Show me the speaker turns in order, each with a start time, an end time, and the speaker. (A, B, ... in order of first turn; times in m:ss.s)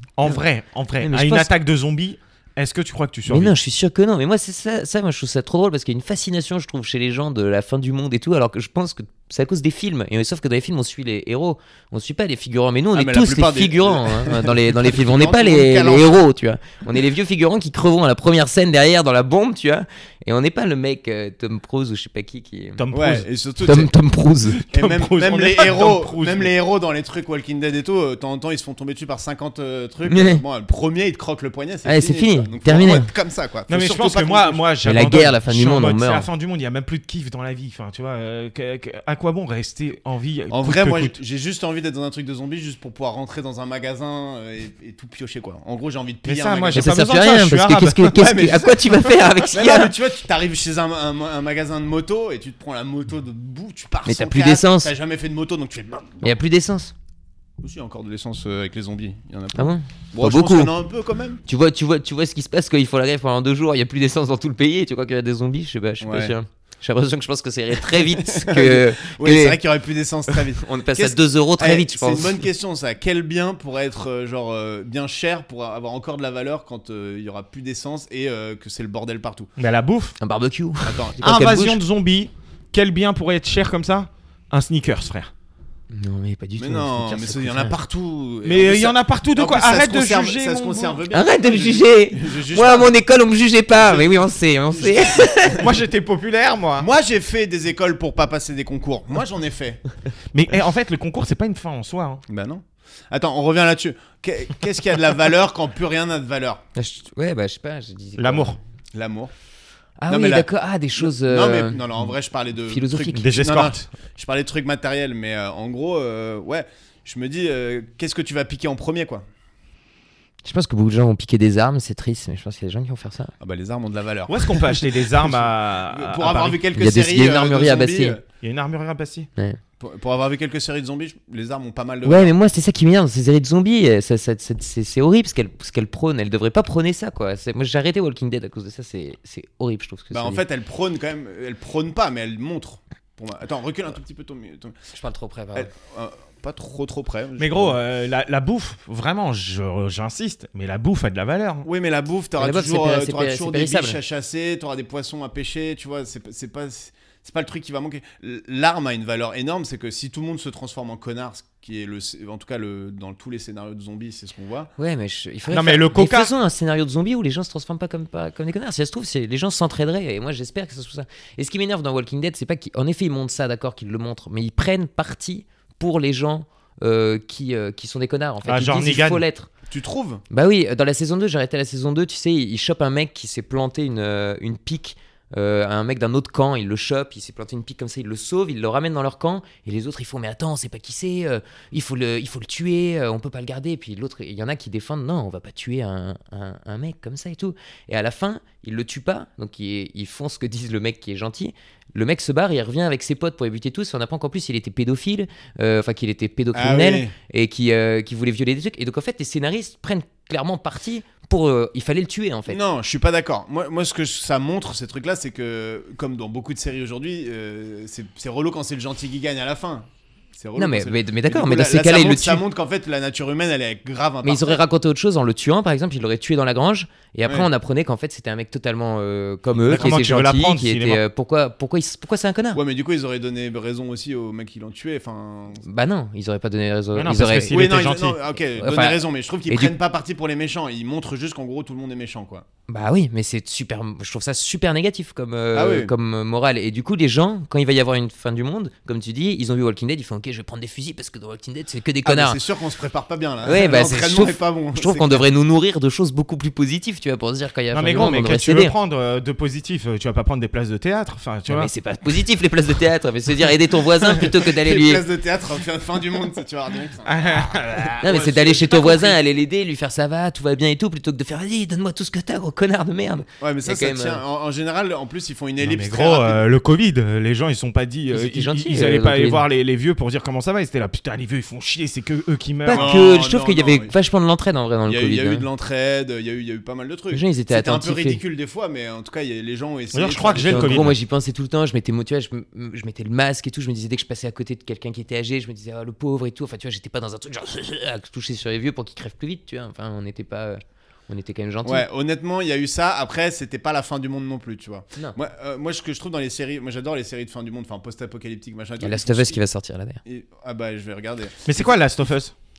0:00.2-0:03.5 A
0:01.0-0:01.5 B
0:03.3-0:22.8 B
0:12.9-0:16.2 C
0:22.8-0:23.3 A
0:22.9-0:23.9 C
0:23.6-0:24.6 B
0:24.5-0:26.5 A
0:24.7-0:34.6 C
0:30.1-0:30.4 B
0:31.8-0:33.1 B
0:33.7-0:41.2 A
0:34.8-0:36.3 B
0:40.5-0:46.9 C
0:46.3-0:48.3 A
0:46.7-0:49.9 B
0:48.2-0:56.4 C
0:54.1-0:54.9 B
0:56.2-0:56.9 B
0:57.6-1:01.4 C
0:59.6-1:00.7 B
1:01.5-1:09.6 B
1:06.0-1:06.3 C
1:07.9-1:19.5 C
1:10.3-1:12.4 B
1:19.6-1:20.2 A
1:20.2-1:21.8 B
1:20.8-1:21.2 C
1:21.2-1:25.3 A
1:25.9-1:27.7 B
1:26.6-1:32.9 C
1:28.4-1:31.0 A
1:31.1-1:35.7 B
1:33.7-1:35.7 C
1:35.6-1:36.9 A
1:36.8-1:39.8 C
1:40.3-1:42.2 A
1:42.3-1:46.6 C
1:46.8-1:48.6 B
1:48.2-1:48.6 A
1:48.9-1:49.3 C
1:50.0-1:52.0 B
1:50.1-1:59.2 C
1:52.7-1:53.3 B
1:53.2-1:53.9 A
2:00.4-2:03.3 B
2:03.4-2:08.2 C
2:04.3-2:06.6 A
2:06.8-2:08.2 B
2:08.4-2:09.3 A
2:09.8-2:12.3 C
2:12.0-2:20.4 B
2:20.1-2:24.8 C
2:24.9-2:25.7 B
2:25.5-2:27.8 C
2:27.4-2:31.7 A
2:31.6-2:44.7 C
2:32.4-2:34.0 B
2:44.8-2:59.5 B
2:45.5-2:46.3 A
2:58.4-2:59.2 A
2:59.7-3:00.2 C
3:00.3-3:32.6 B
3:26.5-3:27.1 C
3:32.5-3:44.6 C
3:40.6-3:42.4 B
3:44.2-3:52.6 B
3:49.7-3:51.0 A
3:52.5-3:55.6 C
3:55.6-3:57.7 B
3:56.9-3:58.2 A
3:57.5-4:02.4 C
3:58.6-3:59.7 B
4:02.7-4:12.4 B
4:05.5-4:05.9 C
4:12.0-4:15.3 C
4:13.4-4:18.7 B
4:17.7-4:21.7 A
4:21.5-4:25.0 B
4:24.0-4:27.1 C
4:27.0-4:28.1 A
4:28.0-4:29.2 C
4:28.0-4:34.2 B
4:33.4-4:36.4 C
4:35.6-4:43.0 A
4:38.1-4:39.4 B
4:42.7-4:45.5 B
4:42.7-4:43.9 C
4:44.9-4:50.9 C
4:47.1-4:48.2 B
4:49.9-4:51.0 A
4:50.3-5:01.9 B
5:01.6-5:09.4 C
5:08.8-5:10.0 B
5:10.0-5:11.7 C
5:11.4-5:12.3 A